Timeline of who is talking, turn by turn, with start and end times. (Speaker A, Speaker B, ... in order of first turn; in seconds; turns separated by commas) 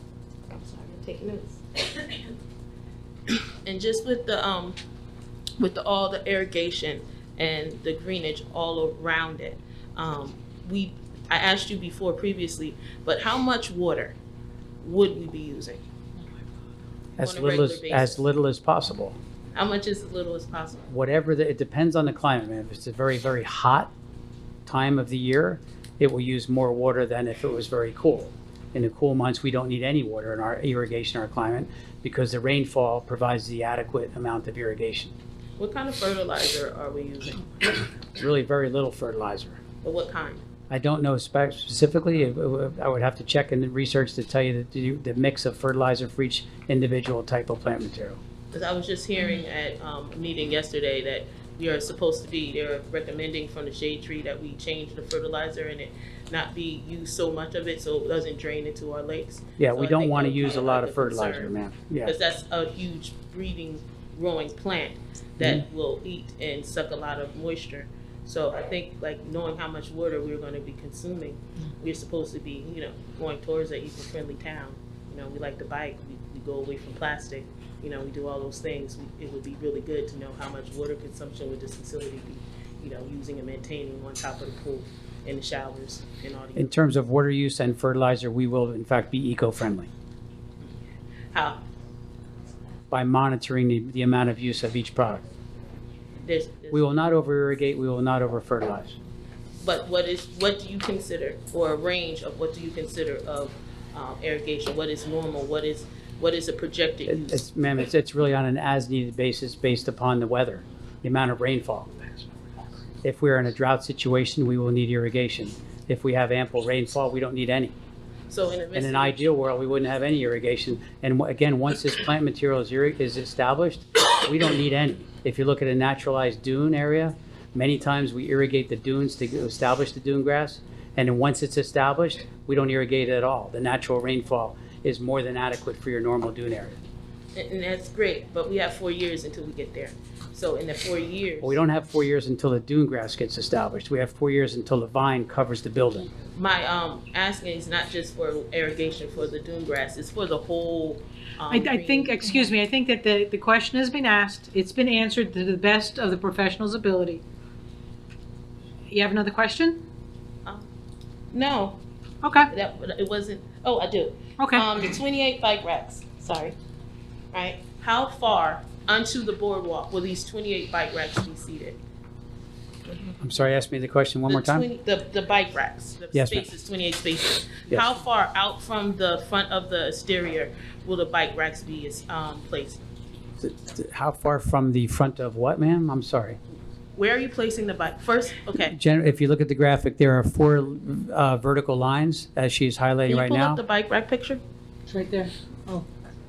Speaker A: 0.5-2.4, Speaker A: 3.3-4.8, Speaker A: 5.6-14.2, Speaker A: 14.8-15.8, Speaker A: 17.2-18.2, Speaker B: 17.2-19.2, Speaker A: 19.5-20.9, Speaker B: 20.9-23.9, Speaker B: 24.6-35.1, Speaker A: 35.6-37.9, Speaker B: 38.2-39.6, Speaker A: 39.8-40.4, Speaker B: 40.7-48.2, Speaker A: 48.5-86.7, Speaker B: 59.6-62.1, Speaker B: 86.5-89.9, Speaker A: 91.3-91.6, Speaker B: 92.9-95.2, Speaker A: 96.2-96.9, Speaker B: 96.7-99.0, Speaker A: 99.6-107.4, Speaker B: 107.0-112.1, Speaker B: 113.0-117.7, Speaker A: 118.3-119.4, Speaker B: 118.7-136.8, Speaker A: 137.3-141.6, Speaker B: 141.4-146.1, Speaker A: 146.3-152.3, Speaker C: 151.5-157.2, Speaker C: 158.9-159.8, Speaker A: 161.3-161.8, Speaker C: 162.2-162.5, Speaker A: 162.5-166.6, Speaker C: 164.4-164.7, Speaker A: 167.3-171.8, Speaker B: 173.2-174.7, Speaker A: 174.3-182.8, Speaker B: 176.1-176.5, Speaker B: 183.4-186.4, Speaker A: 186.9-188.7, Speaker B: 188.6-193.6, Speaker A: 193.1-194.4, Speaker C: 194.9-195.8